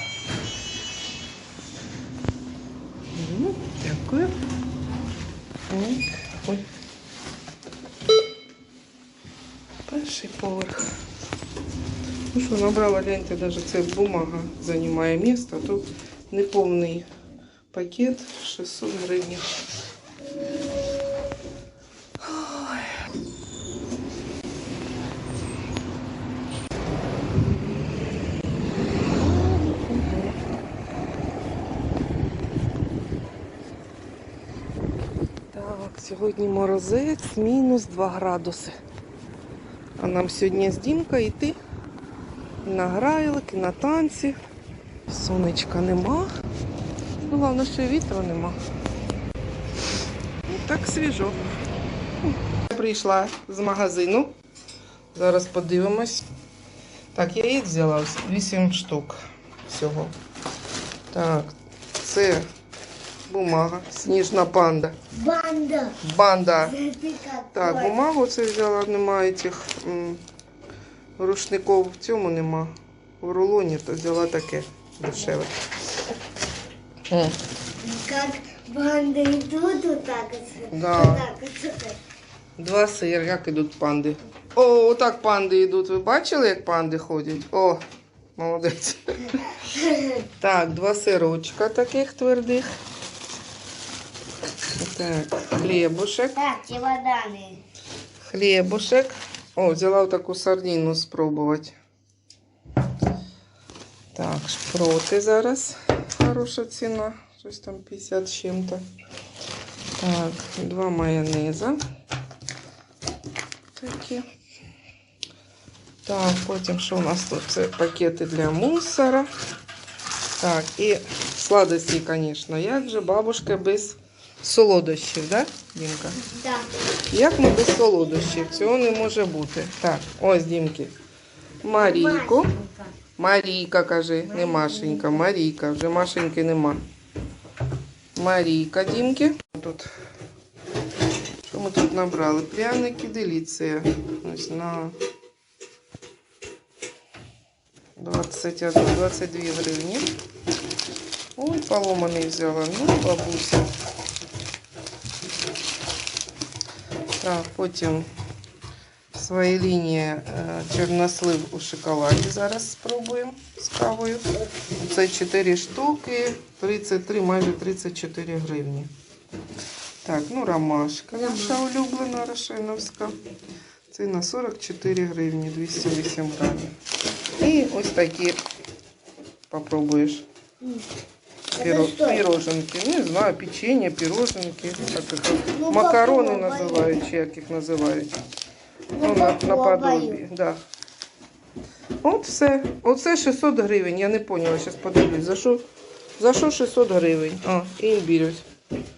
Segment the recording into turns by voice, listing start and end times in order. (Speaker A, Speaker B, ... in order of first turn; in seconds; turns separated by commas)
Speaker A: 3.1-4.4, Speaker A: 5.7-6.7, Speaker A: 9.9-11.0, Speaker A: 12.3-17.1, Speaker A: 17.7-19.5, Speaker A: 22.2-23.0, Speaker A: 29.1-30.4, Speaker A: 35.5-38.8, Speaker A: 40.0-41.6, Speaker A: 42.6-44.4, Speaker A: 45.1-46.3, Speaker A: 47.2-48.6, Speaker A: 50.5-51.4, Speaker A: 52.2-54.4, Speaker A: 55.1-56.3, Speaker A: 57.1-60.1, Speaker A: 61.1-62.5, Speaker A: 63.3-65.0, Speaker B: 65.1-66.0, Speaker A: 66.0-66.8, Speaker B: 66.6-67.9, Speaker A: 67.5-70.2, Speaker A: 71.2-75.6, Speaker A: 77.1-77.4, Speaker B: 77.8-82.0, Speaker A: 80.7-81.3, Speaker A: 82.6-87.8, Speaker A: 88.4-89.6, Speaker B: 89.7-90.1, Speaker A: 90.3-92.7, Speaker A: 94.8-96.5, Speaker B: 96.4-97.6, Speaker A: 98.2-101.8, Speaker A: 104.1-108.8, Speaker A: 110.0-111.8, Speaker A: 113.7-114.3, Speaker A: 116.0-119.3, Speaker A: 120.4-126.2, Speaker B: 126.2-126.7, Speaker A: 127.1-130.9, Speaker B: 128.2-128.5, Speaker A: 131.6-132.5, Speaker B: 131.8-132.9, Speaker A: 133.2-136.8, Speaker B: 134.3-135.2, Speaker A: 138.2-139.9, Speaker A: 141.5-145.0, Speaker A: 148.0-150.1, Speaker A: 151.4-153.7, Speaker A: 157.2-158.1, Speaker A: 159.1-168.9, Speaker A: 170.0-173.2, Speaker B: 171.2-171.6, Speaker A: 173.9-176.7, Speaker A: 177.4-178.4, Speaker A: 179.5-180.3, Speaker A: 181.5-188.2, Speaker B: 181.6-182.2, Speaker B: 185.5-186.9, Speaker B: 188.9-190.2, Speaker A: 189.0-190.6, Speaker A: 192.0-195.7, Speaker A: 196.2-198.5